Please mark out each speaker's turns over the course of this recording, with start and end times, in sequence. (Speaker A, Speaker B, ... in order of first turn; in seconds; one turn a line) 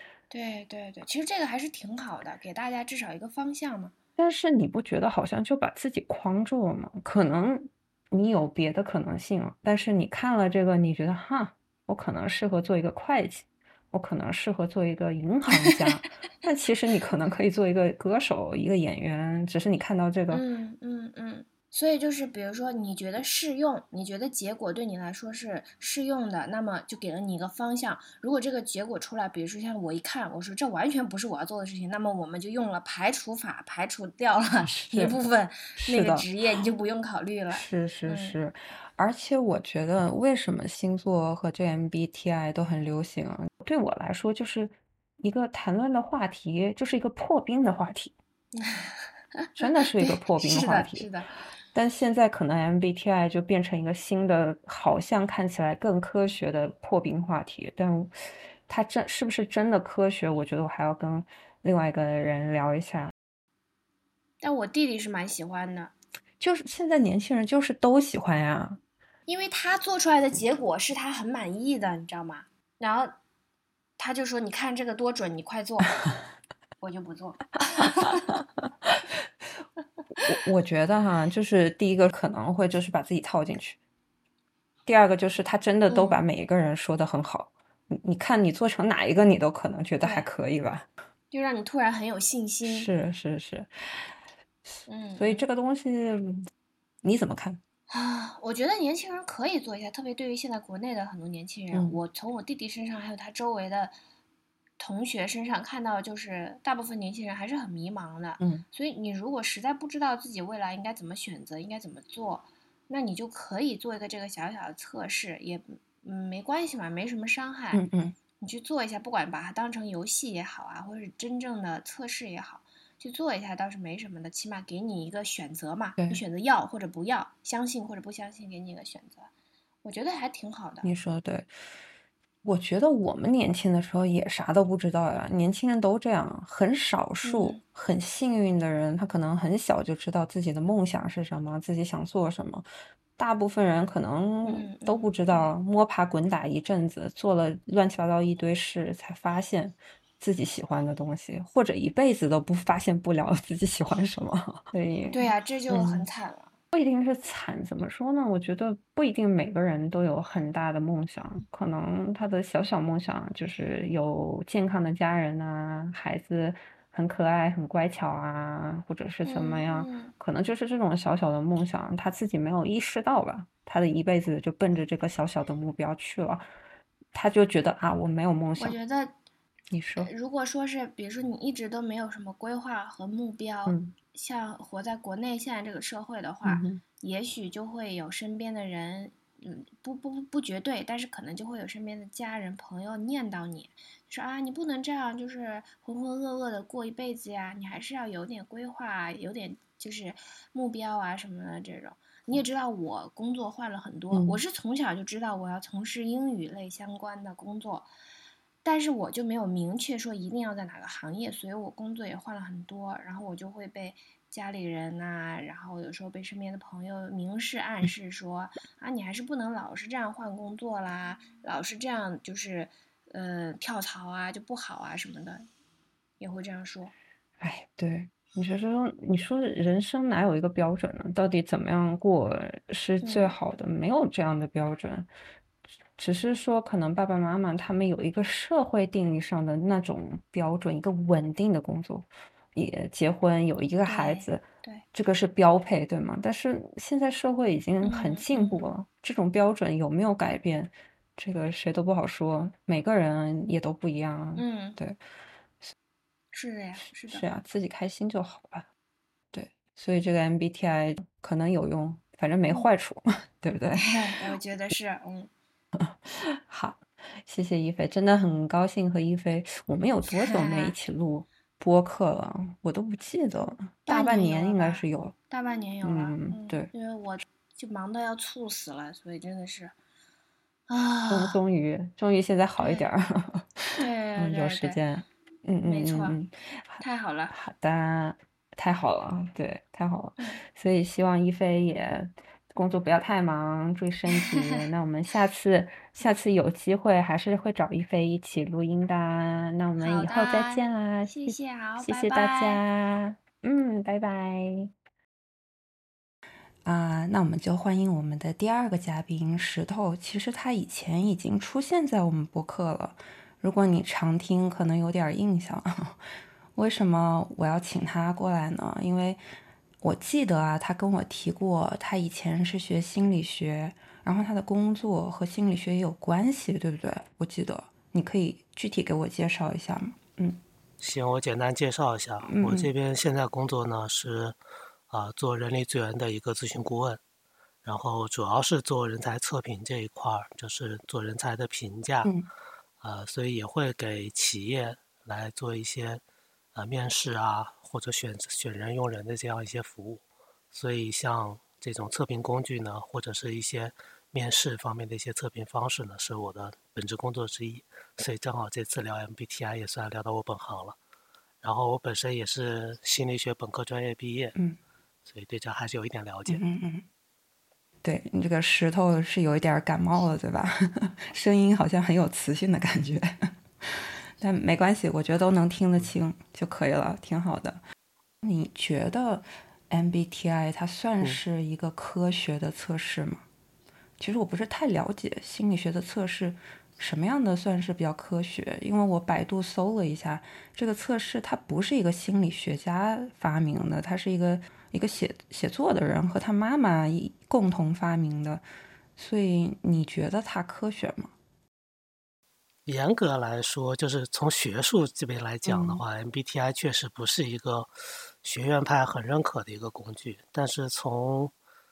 Speaker A: 0.3-3.9
Speaker B: 4.2-20.4
Speaker A: 20.3-38.4
Speaker B: 34.6-35.2
Speaker B: 35.8-36.2
Speaker B: 37.5-48.1
Speaker A: 48.5-51.3
Speaker B: 49.6-51.1
Speaker B: 51.7-58.1
Speaker B: 58.7-63.1
Speaker A: 64.4-65.9
Speaker B: 66.4-68.8
Speaker A: 69.3-73.2
Speaker A: 74.0-76.0
Speaker A: 76.8-78.4
Speaker B: 80.2-83.8
Speaker B: 84.8-90.9
Speaker A: 85.9-86.2
Speaker A: 90.0-90.3
Speaker A: 91.3-92.9
Speaker B: 92.6-94.1
Speaker A: 94.9-95.4
Speaker B: 95.2-96.5
Speaker B: 97.0-97.6
Speaker A: 97.9-104.0
Speaker B: 101.7-102.0
Speaker A: 104.8-117.8
Speaker B: 117.7-118.2
Speaker A: 118.4-129.3
Speaker A: 129.8-130.9
Speaker B: 130.8-131.5
Speaker B: 132.4-156.1
Speaker A: 137.2-137.6
Speaker A: 144.4-145.5
Speaker A: 155.1-156.5
Speaker B: 156.7-176.5
Speaker A: 169.2-170.1
Speaker B: 177.1-178.8
Speaker A: 178.6-179.1
Speaker B: 179.7-180.1
Speaker A: 180.0-207.9
Speaker B: 183.7-183.9
Speaker B: 186.4-186.8
Speaker B: 204.1-204.4
Speaker A: 208.6-225.5
Speaker A: 226.2-226.9
Speaker B: 227.4-235.1
Speaker A: 233.0-233.3
Speaker B: 236.0-255.0
Speaker A: 243.8-244.8
Speaker A: 247.8-248.7
Speaker A: 254.3-254.8
Speaker A: 256.3-257.2
Speaker B: 257.1-258.7
Speaker B: 259.3-264.0
Speaker A: 263.8-265.3
Speaker B: 265.8-275.1
Speaker A: 270.1-270.8
Speaker A: 273.9-279.7
Speaker B: 275.8-276.7
Speaker A: 280.7-281.4
Speaker B: 281.1-304.7
Speaker A: 282.6-282.9
Speaker A: 283.8-284.8
Speaker A: 285.6-286.2
Speaker A: 286.8-287.3
Speaker A: 299.8-302.6
Speaker B: 306.6-316.0
Speaker B: 316.5-319.2
Speaker B: 319.8-330.4
Speaker C: 330.8-334.4
Speaker B: 332.3-332.7
Speaker C: 334.9-337.0
Speaker C: 337.6-342.1
Speaker B: 342.0-342.3
Speaker C: 342.8-346.0
Speaker C: 346.5-360.8
Speaker C: 361.4-364.4
Speaker C: 365.1-366.4
Speaker B: 366.3-366.9
Speaker B: 367.8-377.6
Speaker B: 378.2-383.2
Speaker B: 384.0-398.4
Speaker B: 399.0-401.1
Speaker C: 402.6-407.7
Speaker B: 405.4-405.8
Speaker C: 408.2-411.3